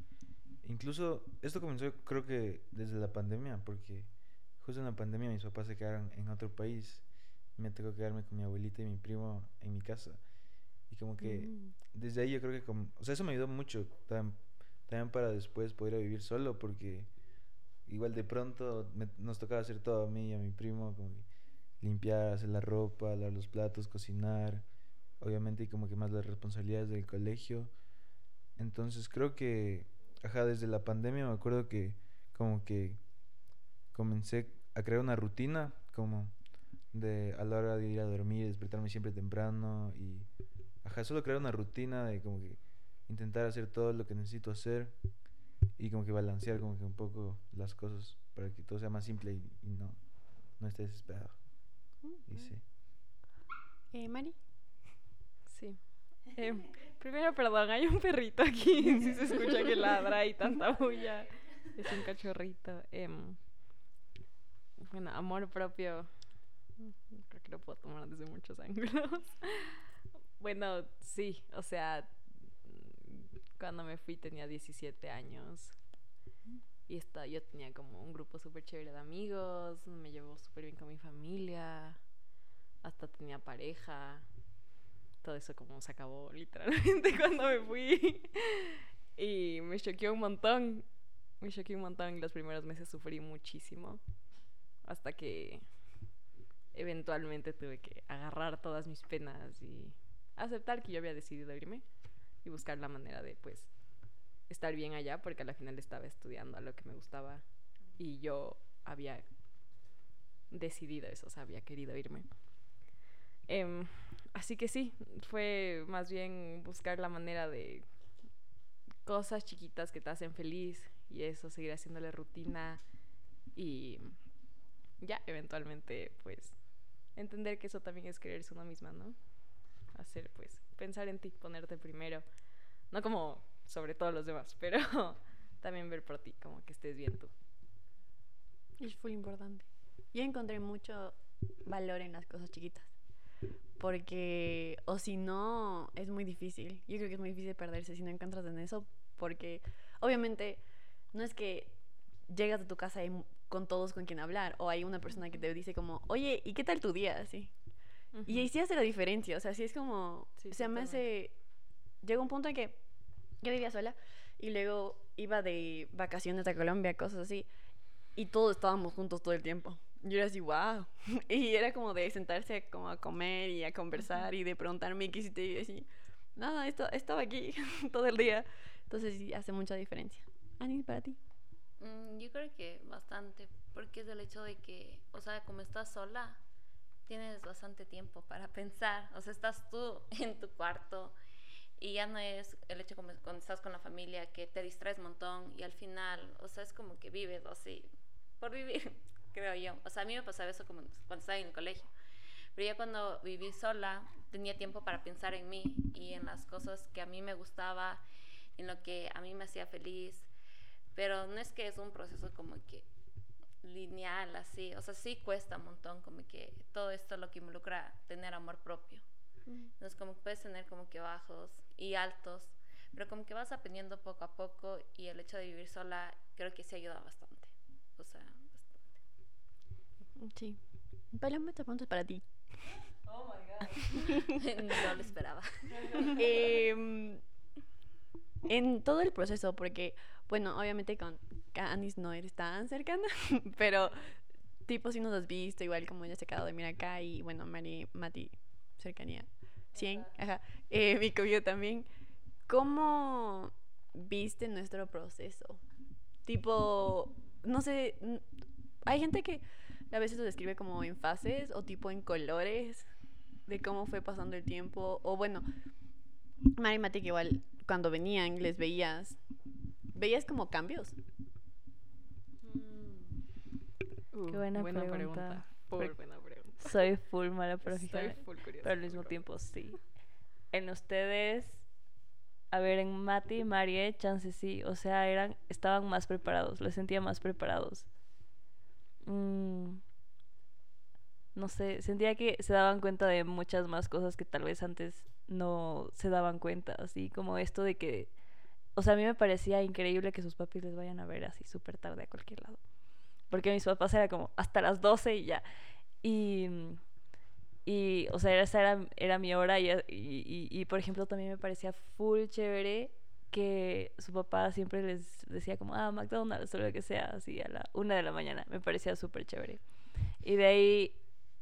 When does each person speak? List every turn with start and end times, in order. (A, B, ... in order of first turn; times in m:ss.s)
0:00.6-0:10.2 A
0:10.8-0:17.1 A
0:11.2-0:11.7 B
0:17.9-0:21.3 A
0:21.8-0:24.7 A
0:25.2-0:27.7 A
0:28.6-0:33.0 A
0:33.9-0:36.4 A
0:36.9-0:40.3 A
0:40.8-0:45.0 A
0:45.8-0:52.6 A
0:52.0-0:52.5 B
0:53.9-0:54.4 B
0:55.5-1:03.4 C
1:04.8-1:09.8 C
1:10.4-1:15.8 C
1:16.9-1:22.0 C
1:22.8-1:24.3 C
1:25.2-1:30.9 C
1:31.4-1:34.0 C
1:34.8-1:35.7 C
1:36.7-1:41.8 C
1:42.4-1:43.8 C
1:44.4-1:47.4 C
1:48.0-1:49.2 C
1:50.5-1:52.8 C
1:53.5-1:57.8 C
1:59.0-2:02.8 C
2:03.5-2:04.2 C
2:05.0-2:12.2 C
2:12.9-2:17.3 C
2:18.8-2:22.9 B
2:23.8-2:31.8 B
2:32.3-2:37.5 B
2:38.1-2:38.5 C
2:38.2-2:41.4 B
2:40.4-2:41.0 C
2:42.0-2:42.8 B
2:43.4-2:47.5 B
2:48.2-3:01.2 B
3:01.8-3:06.4 D
3:07.1-3:11.2 D
3:11.8-3:21.9 D
3:22.6-3:28.0 D
3:28.6-3:30.3 D
3:30.9-3:32.9 D
3:33.6-3:39.0 D
3:39.5-3:39.7 B
3:39.8-3:48.9 D
3:50.2-3:50.6 B
3:51.1-3:52.3 B
3:53.1-3:54.0 E
3:53.9-3:54.3 B
3:54.3-3:56.2 D
3:56.2-3:57.2 B
3:58.5-4:11.9 B
4:12.5-4:15.6 B
4:16.2-4:18.2 B
4:18.8-4:22.9 B
4:23.4-4:25.4 B
4:26.6-4:29.2 B
4:29.9-4:31.0 B
4:32.6-4:32.8 E
4:34.1-4:36.8 C
4:34.3-4:40.0 E
4:37.6-4:39.2 C
4:40.5-4:41.7 E
4:42.5-4:47.9 E
4:49.0-4:49.8 E
4:51.3-4:58.2 E
4:58.8-5:05.4 E
5:06.0-5:06.9 E
5:07.6-5:21.0 E